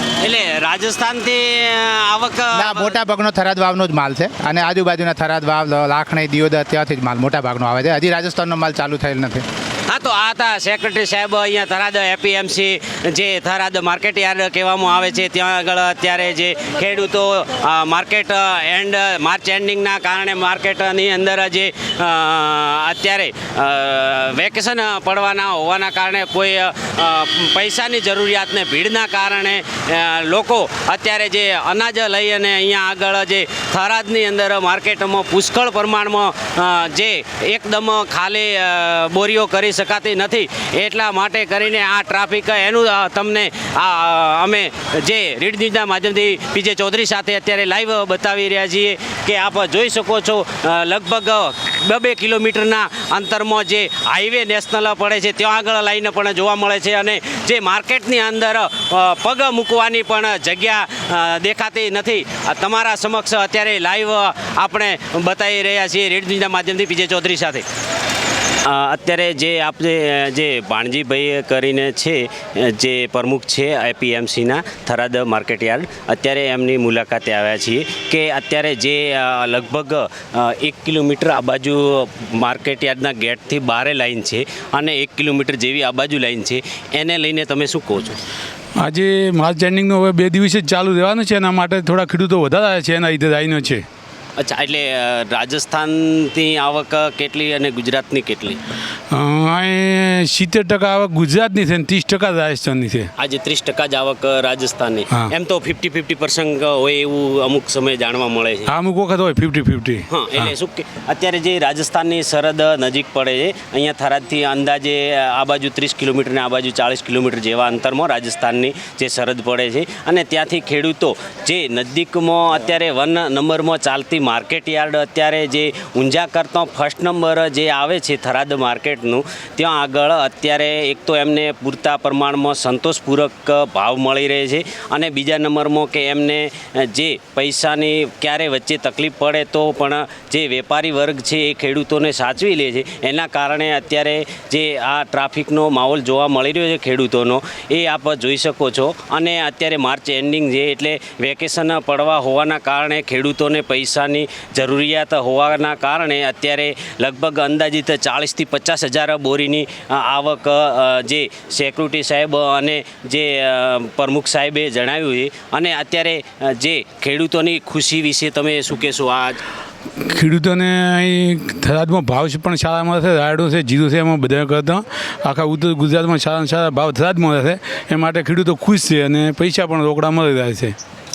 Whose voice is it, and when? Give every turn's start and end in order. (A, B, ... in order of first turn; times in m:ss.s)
0:00.2-0:03.0 A
0:02.5-0:09.4 B
0:09.9-1:07.6 A
1:08.6-1:28.2 A
1:28.8-1:33.8 C
1:34.4-1:38.6 A
1:39.1-1:43.1 C
1:43.2-1:48.7 A
1:48.7-1:50.5 C
1:50.1-2:49.4 A
2:50.0-3:00.7 C